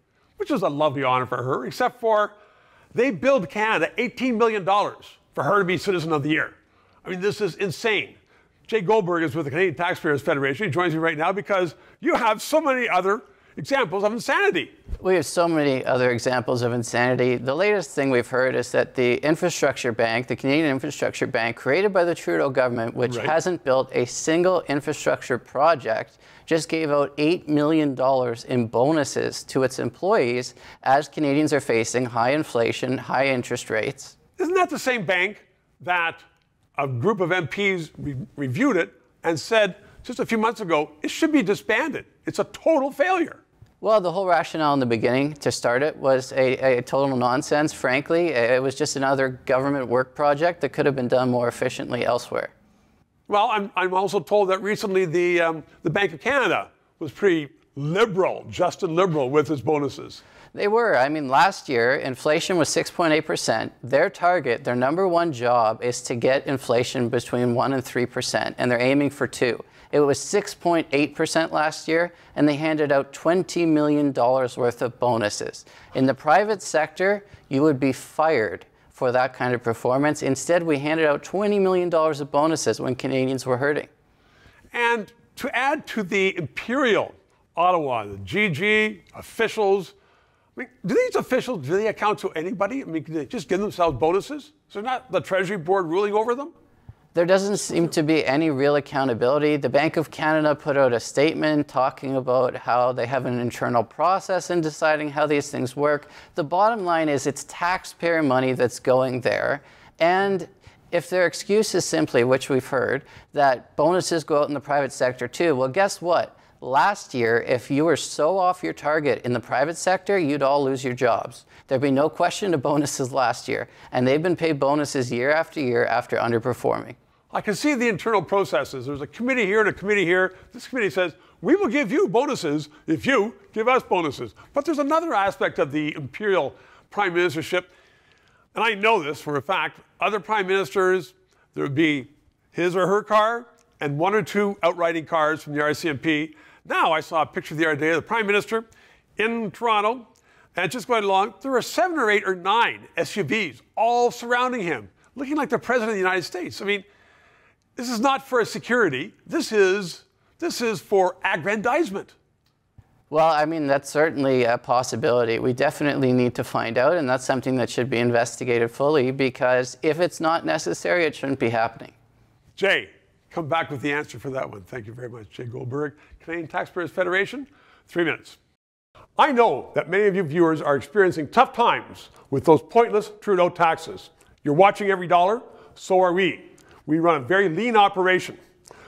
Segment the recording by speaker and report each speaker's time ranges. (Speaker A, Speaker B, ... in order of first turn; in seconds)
Speaker A: 0.4-2.4, 2.9-8.2, 8.7-14.7, 23.1-23.3, 34.4-36.2, 36.8-43.4, 53.3-60.2, 84.7-90.0, 90.6-96.5, 127.3-137.7, 138.5-156.8, 157.8-162.2, 172.6-178.4, 179.2-188.4
Speaker B: 15.0-34.1, 43.8-52.5, 60.5-83.9, 97.1-127.0, 163.1-171.9